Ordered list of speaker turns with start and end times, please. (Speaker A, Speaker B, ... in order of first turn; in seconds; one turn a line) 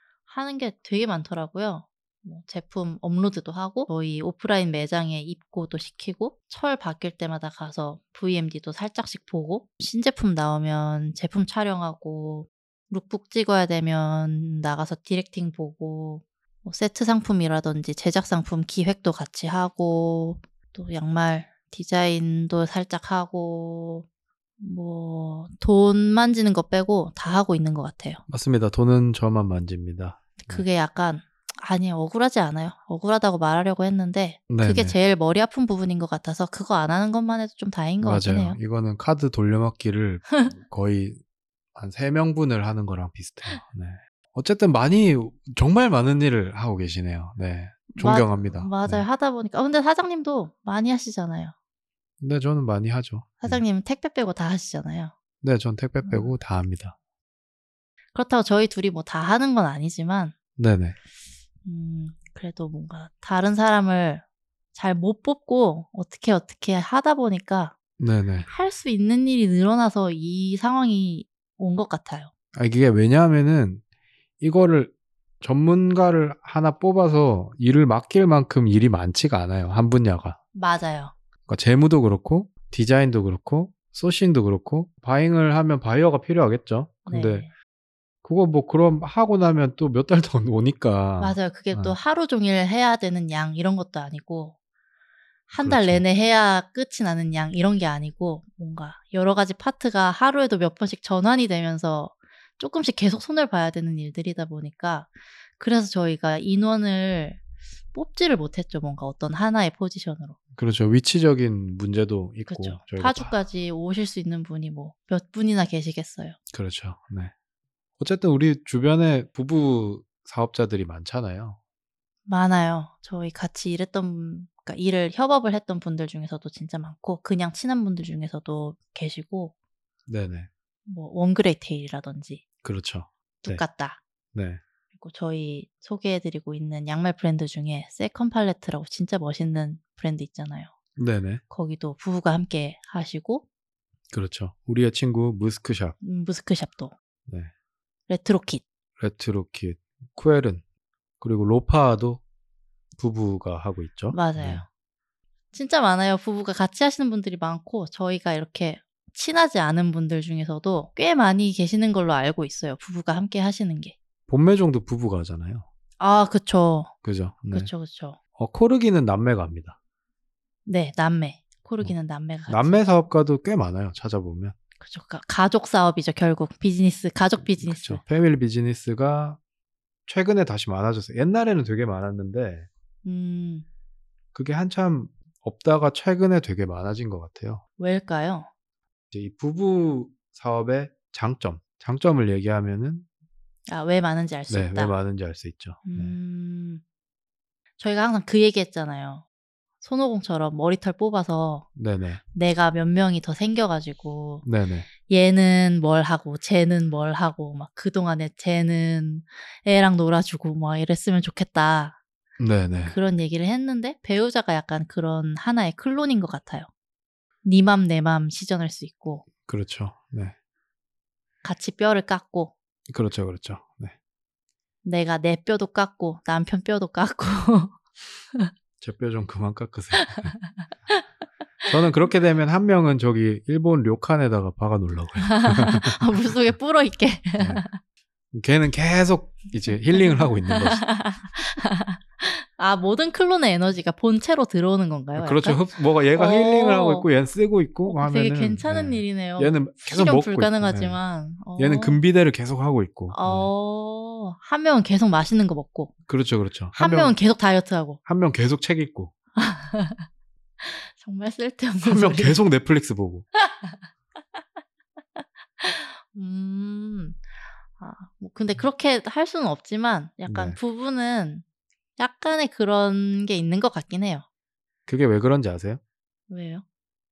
Speaker A: 0.3-24.1
Speaker A: 24.6-28.2
Speaker B: 28.3-30.6
Speaker A: 30.4-38.6
Speaker B: 34.5-35.0
Speaker B: 38.0-41.2
Speaker B: 41.7-49.0
Speaker A: 47.9-51.5
Speaker B: 52.2-53.6
Speaker A: 53.4-55.1
Speaker B: 55.4-57.0
Speaker A: 56.0-56.3
Speaker A: 58.1-60.3
Speaker B: 60.6-61.0
Speaker A: 61.6-67.7
Speaker B: 68.0-68.5
Speaker A: 68.5-72.3
Speaker B: 72.5-73.8
Speaker B: 74.4-80.4
Speaker A: 80.5-81.1
Speaker B: 81.5-87.5
Speaker A: 87.0-87.5
Speaker B: 88.2-92.0
Speaker A: 91.2-94.5
Speaker A: 95.5-107.4
Speaker B: 95.6-96.0
Speaker A: 107.9-110.4
Speaker B: 110.5-113.3
Speaker A: 112.5-116.4
Speaker B: 116.5-117.3
Speaker B: 118.0-121.6
Speaker A: 122.3-129.5
Speaker B: 130.1-130.5
Speaker A: 130.8-132.4
Speaker B: 132.6-133.6
Speaker A: 133.4-134.0
Speaker B: 134.3-134.6
Speaker A: 135.0-140.7
Speaker B: 140.9-141.4
Speaker A: 141.5-143.4
Speaker B: 144.1-146.0
Speaker A: 146.0-146.9
Speaker B: 147.3-147.5
Speaker A: 148.1-148.6
Speaker B: 149.0-150.6
Speaker B: 151.2-152.2
Speaker B: 152.9-154.6
Speaker A: 154.1-154.6
Speaker A: 155.5-163.9
Speaker B: 164.3-165.7
Speaker A: 166.0-166.9
Speaker B: 167.0-167.7
Speaker A: 167.5-168.2
Speaker B: 168.3-169.8
Speaker A: 170.7-172.8
Speaker B: 172.5-174.6
Speaker A: 174.8-178.0
Speaker B: 177.4-179.4
Speaker B: 180.1-182.7
Speaker A: 183.0-183.7
Speaker B: 184.3-187.6
Speaker A: 187.8-188.5
Speaker B: 189.1-193.1
Speaker A: 193.7-194.9
Speaker B: 194.5-196.2
Speaker A: 195.8-196.8
Speaker A: 197.8-199.2
Speaker A: 199.8-201.7
Speaker B: 201.8-202.2
Speaker A: 202.3-204.4
Speaker B: 204.4-204.9
Speaker A: 205.0-212.0
Speaker B: 212.4-213.0
Speaker A: 212.8-216.7
Speaker A: 217.4-219.2
Speaker B: 219.4-220.3
Speaker A: 221.4-222.5
Speaker B: 222.9-223.9
Speaker A: 224.8-227.8
Speaker B: 228.8-230.3
Speaker A: 229.9-231.0
Speaker B: 231.7-236.1
Speaker A: 235.2-237.8
Speaker B: 237.4-237.6
Speaker B: 238.3-240.8
Speaker A: 239.9-247.1
Speaker B: 245.2-251.0
Speaker A: 247.9-252.0
Speaker B: 251.6-253.5
Speaker A: 253.1-255.9
Speaker B: 256.1-257.2
Speaker A: 256.8-258.0
Speaker B: 258.1-259.1
Speaker A: 259.4-260.1
Speaker A: 260.6-262.4
Speaker B: 261.8-263.2
Speaker A: 263.3-263.8
Speaker A: 265.1-267.2
Speaker A: 267.8-271.4
Speaker B: 270.2-270.6
Speaker A: 272.0-274.2
Speaker B: 274.9-275.8
Speaker A: 276.3-276.6